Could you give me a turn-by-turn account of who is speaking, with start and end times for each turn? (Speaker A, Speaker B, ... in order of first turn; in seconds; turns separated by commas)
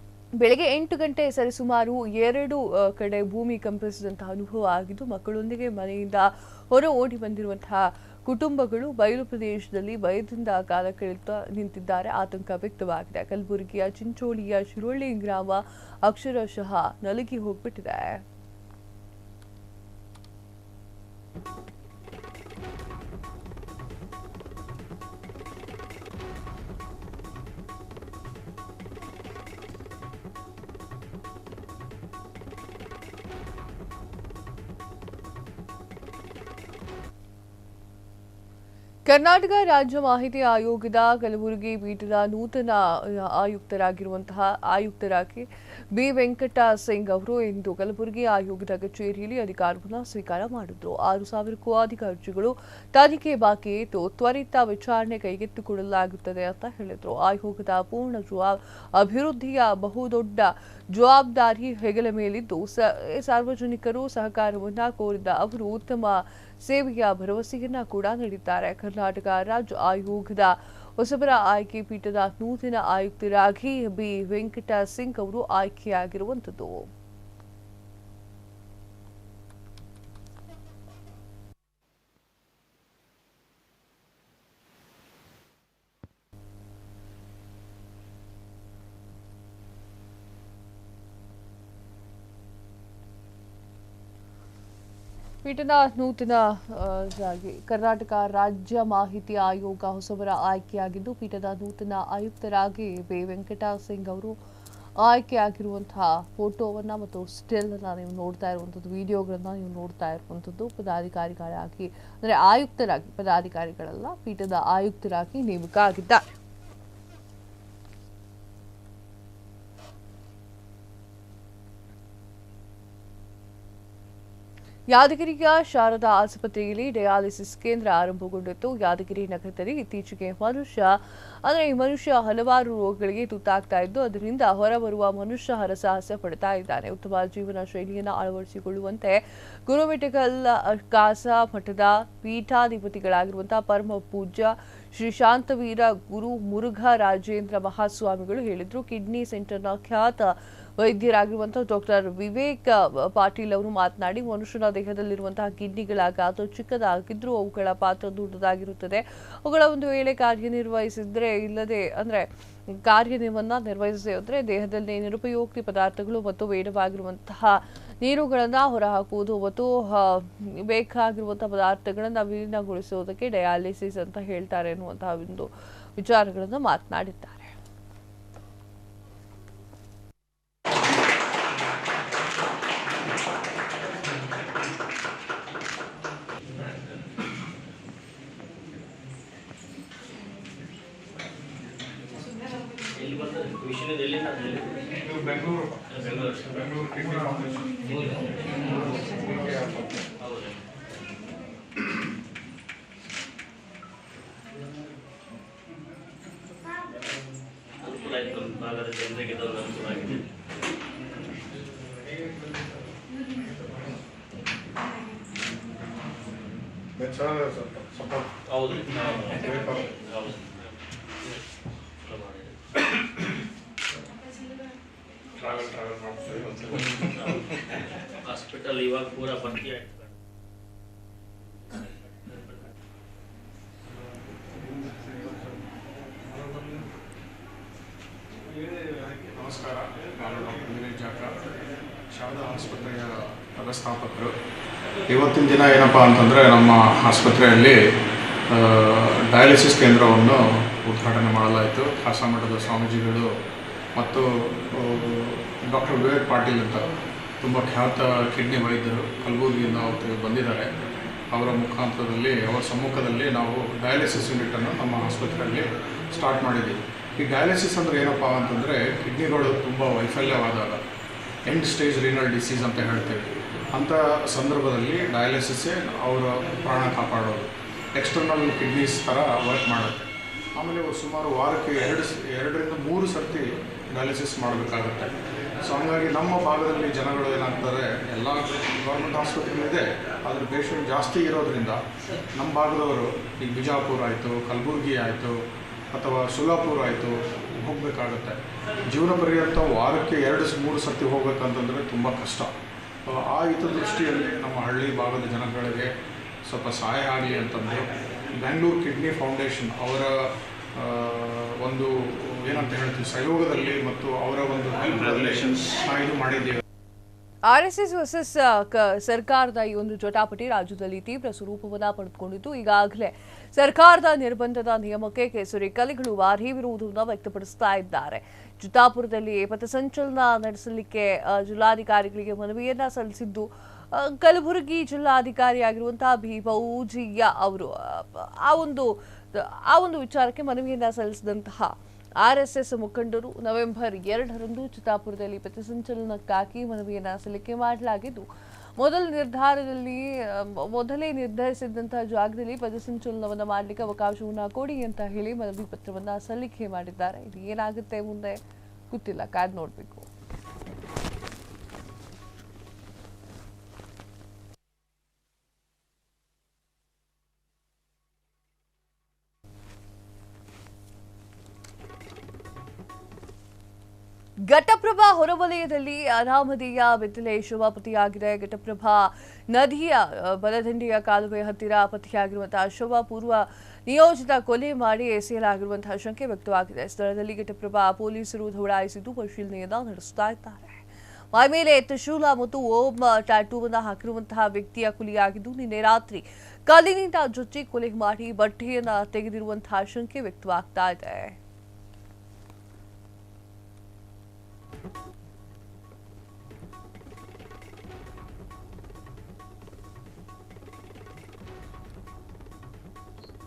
Speaker A: 0.3-18.2, Speaker A: 39.0-76.9, Speaker A: 95.4-104.4, Speaker A: 105.0-116.3, Speaker A: 124.9-177.5, Speaker B: 192.9-195.2, Speaker C: 195.2-195.8, Speaker B: 195.9-196.6, Speaker C: 196.6-197.7, Speaker B: 197.8-198.4, Speaker C: 198.7-199.9, Speaker B: 200.2-200.6, Speaker B: 207.8-210.2, Speaker C: 217.0-218.3, Speaker B: 218.5-220.5, Speaker C: 219.5-219.8, Speaker B: 222.0-222.6, Speaker C: 225.4-227.1, Speaker B: 228.2-230.0, Speaker C: 239.1-241.3, Speaker C: 242.1-244.3, Speaker C: 245.1-247.8, Speaker C: 248.5-253.3, Speaker C: 253.9-270.8, Speaker C: 271.5-291.8, Speaker C: 292.4-295.3, Speaker C: 295.9-298.4, Speaker C: 298.9-302.5, Speaker C: 303.1-305.9, Speaker C: 306.5-316.6, Speaker A: 317.4-360.1, Speaker A: 374.4-401.4